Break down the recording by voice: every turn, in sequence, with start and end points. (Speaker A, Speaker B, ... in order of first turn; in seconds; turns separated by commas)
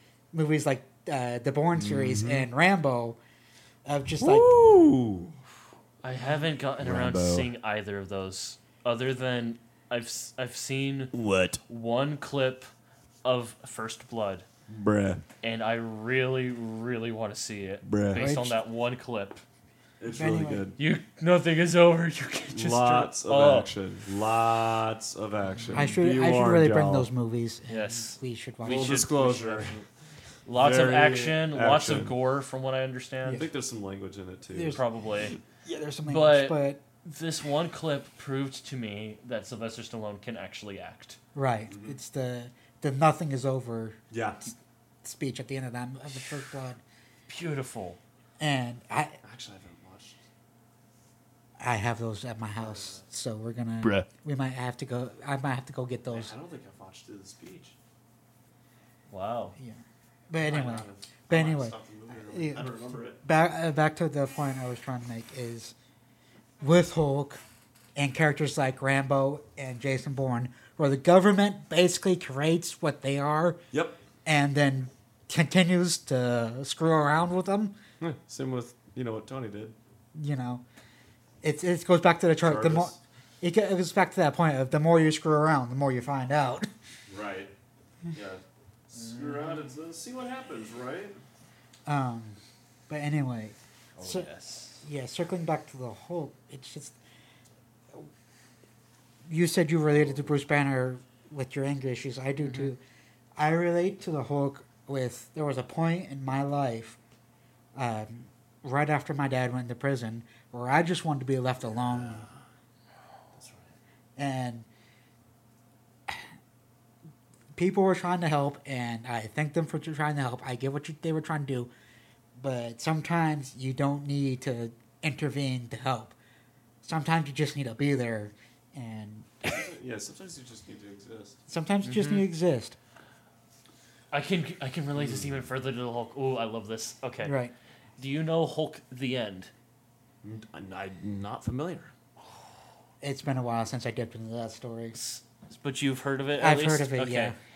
Speaker A: 0.3-3.2, Speaker B: 1.7-2.5, Speaker A: 3.9-4.6, Speaker B: 4.2-5.4, Speaker C: 6.0-11.2, Speaker B: 6.8-7.5, Speaker B: 11.1-11.6, Speaker C: 11.7-12.7, Speaker C: 13.2-14.5, Speaker B: 14.7-15.2, Speaker C: 15.4-19.4, Speaker B: 17.8-18.3, Speaker A: 18.2-18.6, Speaker B: 20.0-20.8, Speaker A: 20.1-20.6, Speaker C: 20.8-23.7, Speaker B: 22.5-27.1, Speaker C: 25.6-25.9, Speaker A: 25.7-29.0, Speaker C: 27.7-29.8, Speaker B: 28.6-29.8, Speaker C: 30.4-33.5, Speaker B: 30.5-32.2, Speaker B: 33.3-35.4, Speaker A: 34.5-34.8, Speaker C: 34.6-35.4, Speaker A: 35.5-36.8, Speaker C: 36.0-41.2, Speaker A: 41.4-44.0, Speaker B: 41.7-42.0, Speaker B: 44.1-44.4, Speaker A: 45.0-46.8, Speaker C: 47.3-48.0, Speaker A: 48.4-49.2, Speaker B: 49.2-50.2, Speaker A: 51.6-56.3, Speaker B: 52.6-53.1, Speaker C: 53.8-54.1, Speaker B: 56.1-57.8, Speaker C: 59.1-59.6, Speaker A: 59.6-65.7, Speaker B: 60.4-63.2, Speaker A: 66.6-67.4, Speaker A: 68.0-73.6, Speaker B: 73.7-74.0, Speaker A: 74.2-77.8, Speaker B: 78.0-79.8, Speaker A: 80.1-80.6, Speaker A: 81.4-86.7, Speaker B: 82.4-83.0, Speaker B: 87.1-87.5, Speaker B: 88.1-91.2, Speaker C: 88.9-89.7, Speaker A: 91.9-94.3, Speaker C: 94.0-94.9, Speaker A: 94.8-97.0, Speaker A: 99.3-102.8, Speaker B: 99.9-100.3, Speaker C: 102.4-102.7, Speaker A: 103.4-107.0, Speaker A: 107.8-112.3, Speaker B: 111.6-112.5, Speaker B: 113.3-113.8, Speaker A: 114.2-114.7, Speaker A: 117.5-121.7, Speaker A: 122.4-126.2, Speaker A: 126.8-129.5, Speaker B: 129.5-131.4, Speaker A: 131.5-132.8, Speaker C: 131.8-132.3, Speaker C: 134.1-137.4, Speaker B: 134.9-135.5, Speaker A: 137.2-137.5, Speaker C: 138.0-139.5, Speaker B: 140.2-141.9, Speaker A: 143.0-145.0, Speaker C: 144.9-147.4, Speaker A: 146.4-147.4